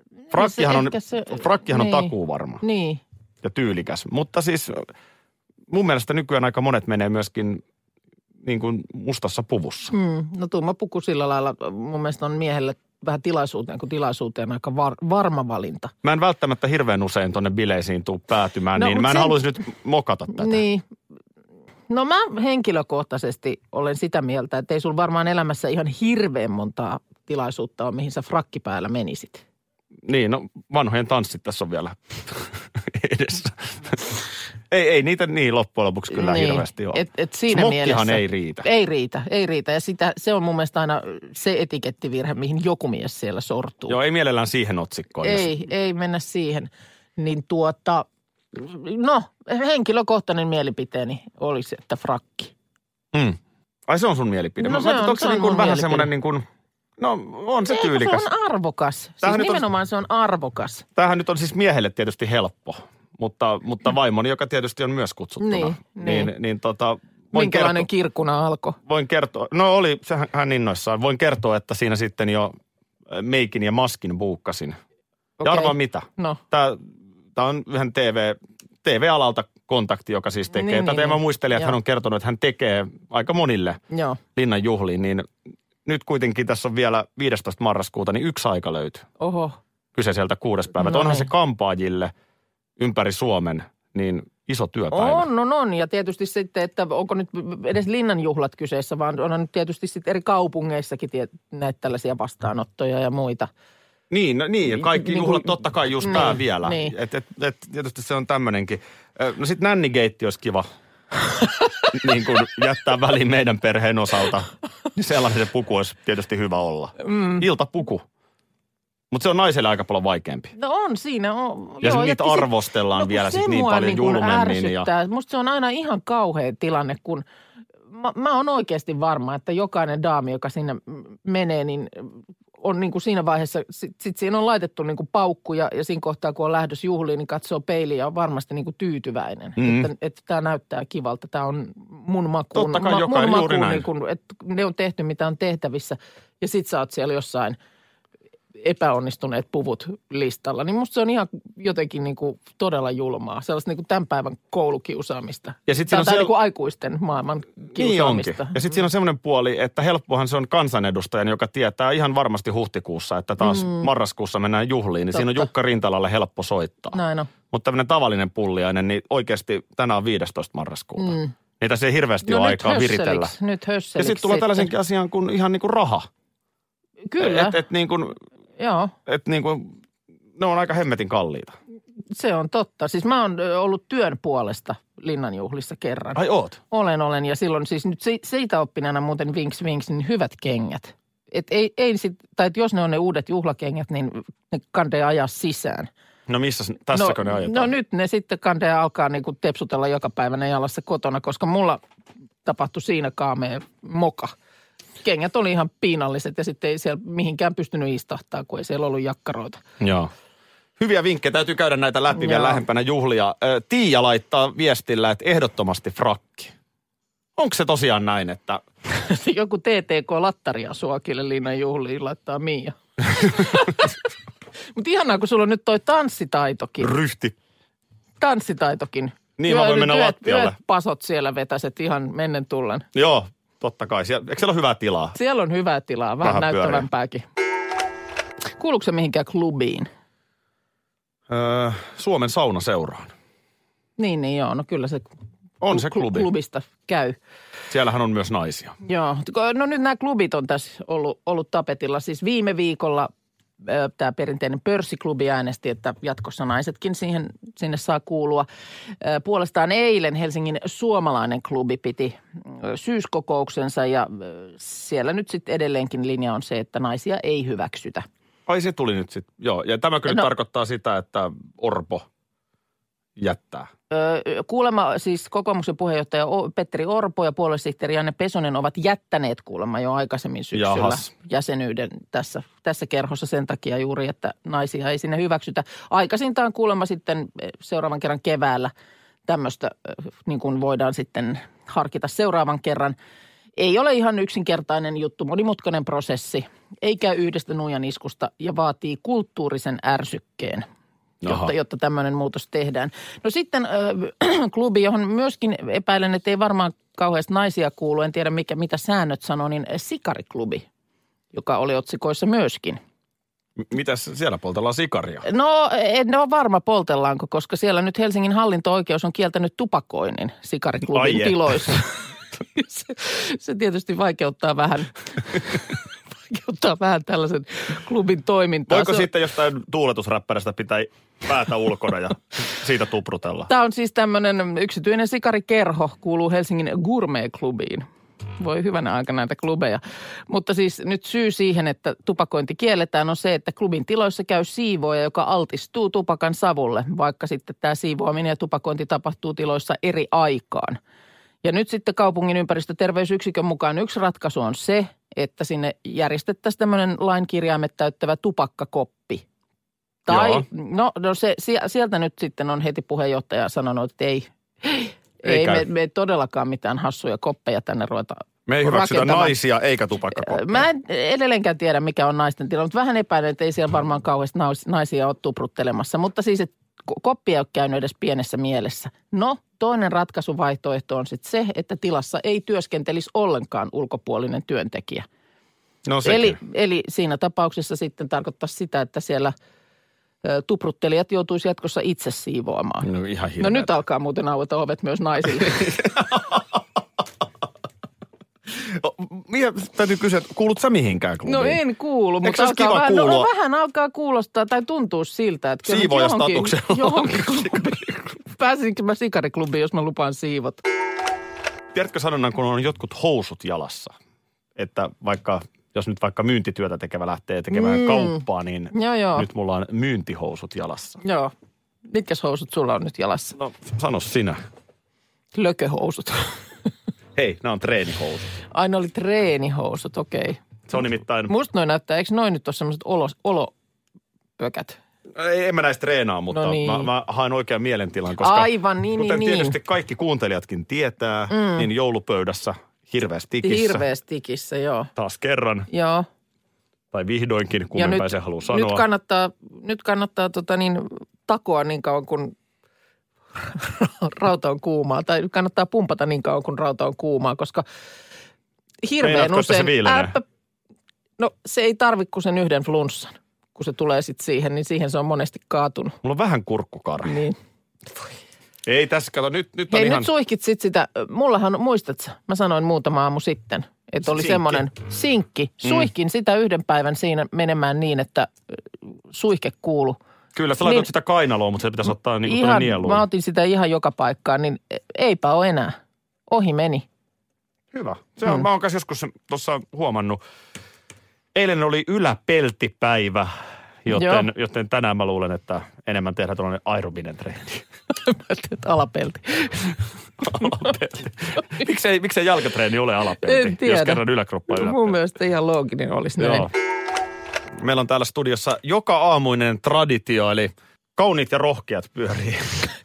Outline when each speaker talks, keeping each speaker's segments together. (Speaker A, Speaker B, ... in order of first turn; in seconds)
Speaker A: 0.3-3.0, 9.9-15.9, 18.8-19.4, 20.3-20.8, 21.9-29.4, 36.1-44.0, 45.2-52.5, 54.6-56.1, 57.7-60.9, 65.4-66.3, 67.3-68.8, 75.4-76.4, 80.5-81.8, 83.9-84.2, 89.2-89.6, 90.8-91.3, 94.9-103.5, 104.8-106.9, 117.0-117.4, 120.5-127.2, 127.9-147.6, 148.6-158.6, 163.4-163.9, 165.1-165.5, 166.9-167.3, 171.0-171.3, 172.2-174.7, 177.1-177.6, 178.6-178.9, 182.1-195.9, 196.9-201.8, 202.4-204.3, 205.0-209.6, 212.1-212.6, 218.9-223.9, 224.8-226.9, 228.2-232.8, 235.2-237.2, 238.6-239.9, 244.0-245.1, 245.7-247.2, 248.8-253.1, 253.6-258.5, 259.0-268.1, 273.9-288.7, 289.3-292.9, 293.6-300.6, 301.2-310.6, 311.3-312.8, 315.2-321.9, 322.5-325.7, 326.3-329.1, 333.5-337.9, 338.4-350.8, 351.4-359.2, 360.1-369.3, 370.2-385.1, 386.0-389.3, 390.2-392.9, 393.4-395.7, 401.2-410.6, 417.5-418.2, 418.7-419.2, 421.0-421.3, 421.9-423.4, 425.3-426.3, 428.5-430.4, 431.3-433.5, 434.4-434.8, 436.3-436.9, 438.2-439.6, 441.3-441.7, 443.4-444.9, 445.7-446.1, 447.7-452.3, 453.5-457.6, 458.8-460.2, 461.2-465.9, 467.1-467.4, 469.7-478.3, 479.1-480.0, 480.6-480.9, 482.2-485.8, 486.3-486.8, 493.9-494.3, 498.0-499.7, 500.4-500.7, 503.2-506.5
Speaker B: 0.3-2.6, 3.4-4.9, 5.7-7.6, 8.4-9.9, 16.0-20.6, 30.1-34.2, 34.7-38.6, 43.9-45.5, 53.1-56.4, 57.0-58.2, 59.2-59.6, 61.0-67.9, 68.8-72.5, 73.1-74.8, 75.4-76.8, 77.3-83.8, 84.3-85.3, 85.8-89.1, 89.9-92.1, 92.8-95.2, 104.1-110.7, 111.9-118.0, 119.1-120.5, 121.8-124.9, 139.6-139.9, 142.5-143.9, 155.7-156.3, 157.7-166.9, 167.5-173.3, 174.0-176.1, 177.2-178.2, 179.1-179.7, 180.4-181.6, 186.2-186.6, 196.3-197.7, 209.8-210.1, 210.8-216.5, 217.4-218.6, 226.8-227.3, 229.4-230.5, 232.9-235.2, 236.2-236.8, 241.3-243.1, 245.6-246.3, 247.7-248.7, 268.5-272.0, 273.2-273.7, 280.5-281.1, 301.2-301.5, 313.6-315.2, 320.9-321.8, 328.7-333.5, 360.1-360.4, 365.2-365.6, 368.5-370.7, 385.9-386.4, 392.8-393.7, 395.5-396.4, 398.6-401.6, 402.2-403.3, 405.6-407.6, 411.7-413.9, 414.6-421.0, 423.4-424.4, 427.1-428.3, 430.7-431.3, 435.1-443.8, 444.9-445.7, 446.9-448.8, 459.0-460.2, 466.0-467.1, 468.6-470.1, 474.1-474.6, 475.6-475.9, 480.3-483.0, 487.7-490.2, 491.3-493.3, 493.8-497.6, 500.2-504.9, 506.2-506.5, 507.6-512.7